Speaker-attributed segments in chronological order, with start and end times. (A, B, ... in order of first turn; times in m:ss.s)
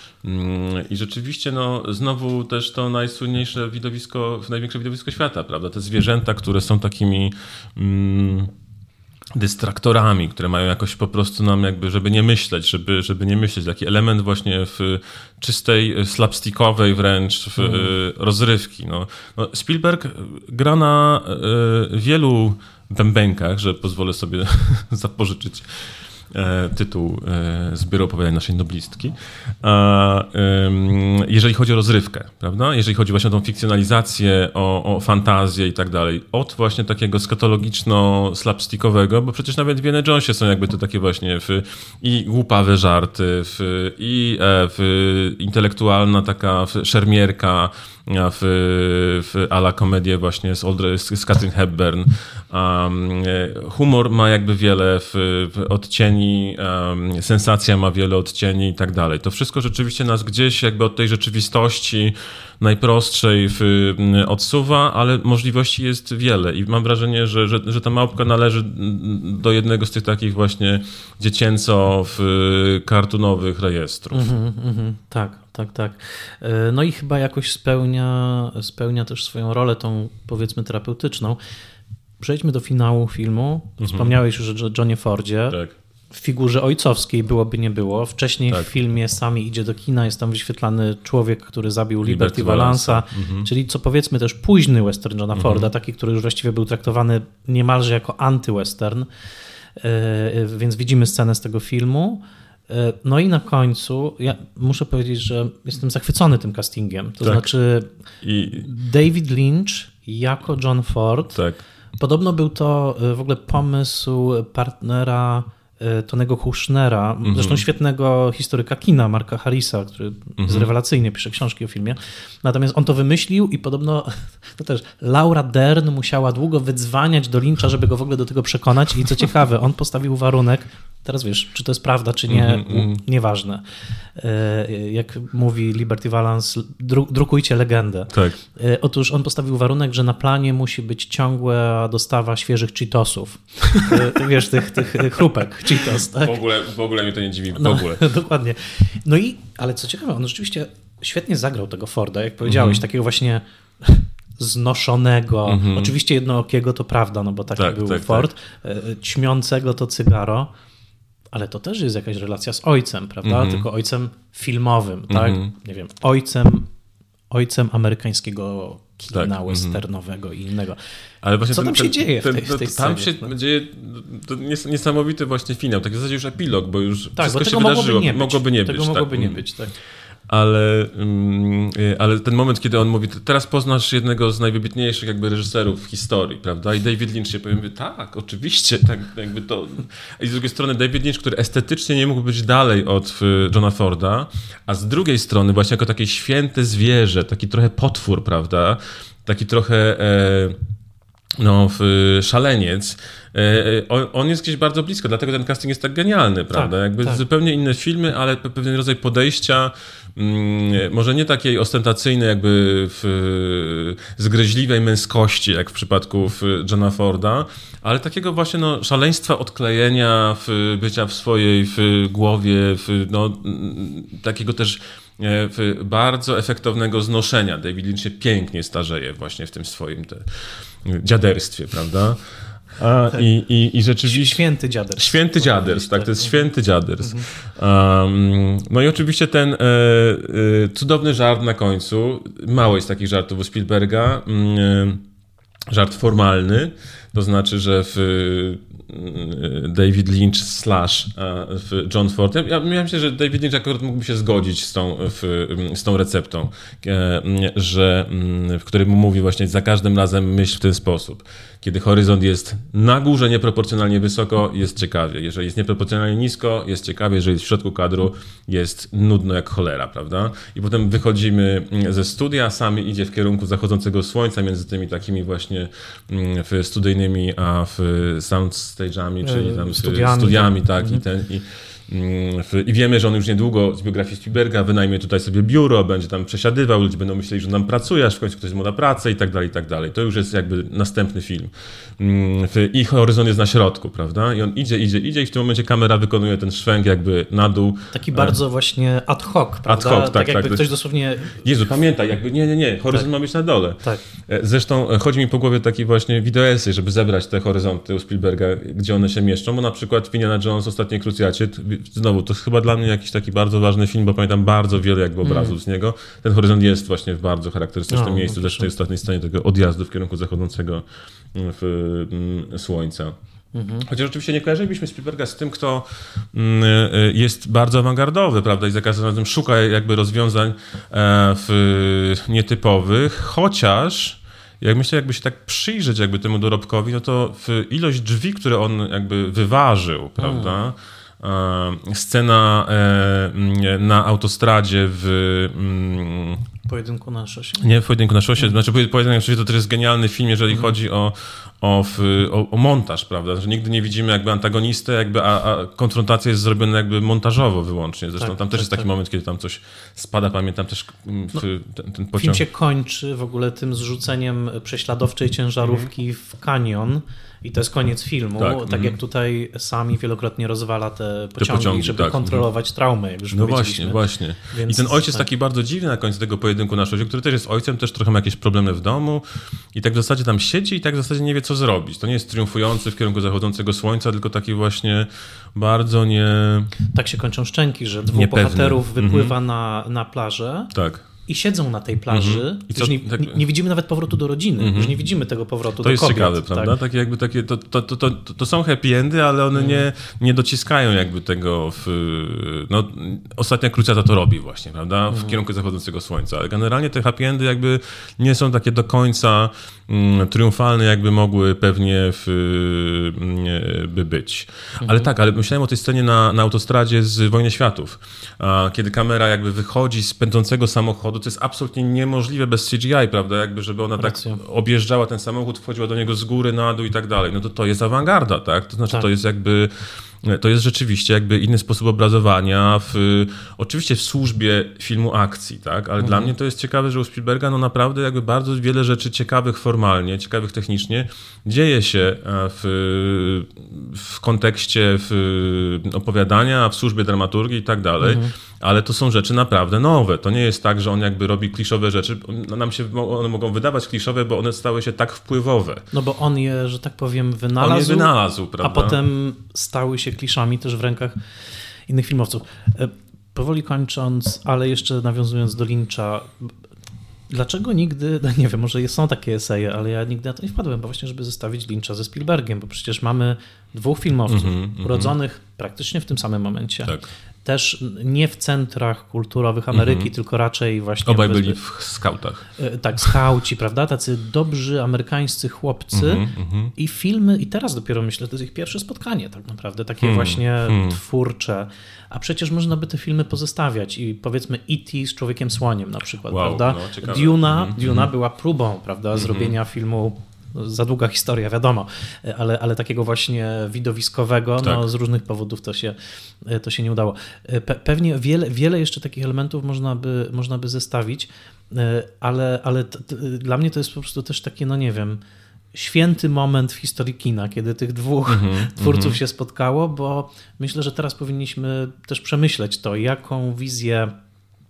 0:00.2-0:08.5 A
0:09.3-1:14.3 A
0:17.6-0:17.9 B
1:14.1-1:21.4 B
1:22.2-1:25.6 B
1:23.8-1:24.2 A
1:25.5-1:25.8 A
1:26.1-1:39.1 B
1:32.0-1:33.5 A
1:35.4-1:35.7 A
1:39.8-1:47.9 B
1:47.2-1:47.5 A
1:48.2-1:48.7 A
1:48.6-1:51.4 B
1:51.3-1:51.6 A
1:52.0-2:13.6 B
1:57.2-1:57.6 A
2:00.4-2:00.7 A
2:12.3-2:13.0 A
2:14.2-2:26.4 B
2:18.1-2:18.4 A
2:25.7-2:28.1 A
2:27.5-2:40.5 B
2:32.4-2:32.8 A
2:35.5-2:35.9 A
2:37.6-2:38.3 A
2:41.3-2:46.7 B
2:43.2-2:43.7 A
2:45.1-2:45.5 A
2:47.3-2:50.8 B
2:49.1-2:49.8 A
2:51.2-2:59.4 A
2:51.5-2:53.3 B
2:57.2-2:59.7 B
3:00.3-3:20.6 A
3:21.4-3:54.4 A
3:26.5-3:27.2 B
3:54.0-3:56.5 B
3:55.0-4:05.0 A
3:57.0-3:57.3 B
4:05.7-4:58.4 A
4:39.2-4:41.0 B
4:57.9-5:01.4 B
4:59.7-5:00.7 A
5:01.3-5:23.2 A
5:15.2-5:15.6 B
5:17.9-5:18.7 B
5:23.5-5:23.9 B
5:23.9-5:46.4 A
5:40.2-5:40.6 B
5:46.7-5:47.7 B
5:47.6-6:02.4 A
5:58.2-5:58.9 B
6:02.2-6:15.3 B
6:05.6-6:05.9 A
6:08.4-6:09.0 A
6:11.4-6:12.4 A
6:13.3-6:26.7 A
6:26.9-6:30.7 B
6:28.1-6:29.4 A
6:30.7-6:31.0 A
6:31.3-6:36.7 B
6:32.1-6:33.4 A
6:34.6-6:35.0 A
6:35.8-7:09.7 A
6:39.5-6:39.8 B
6:45.1-6:45.4 B
6:54.8-6:55.1 B
7:04.0-7:04.4 B
7:10.2-7:35.9 A
7:16.0-7:16.3 B
7:28.0-7:28.3 B
7:35.9-7:41.2 B
7:37.6-7:39.0 A
7:41.9-7:46.5 B
7:47.3-8:01.6 B
7:54.3-7:55.1 A
7:59.7-8:00.1 A
8:01.0-8:02.4 A
8:02.6-8:06.2 B
8:05.9-8:06.7 A
8:06.8-8:35.2 B
8:10.0-8:11.0 A
8:16.3-8:18.1 A
8:19.2-8:19.6 A
8:35.7-8:44.1 B
8:38.3-8:39.2 A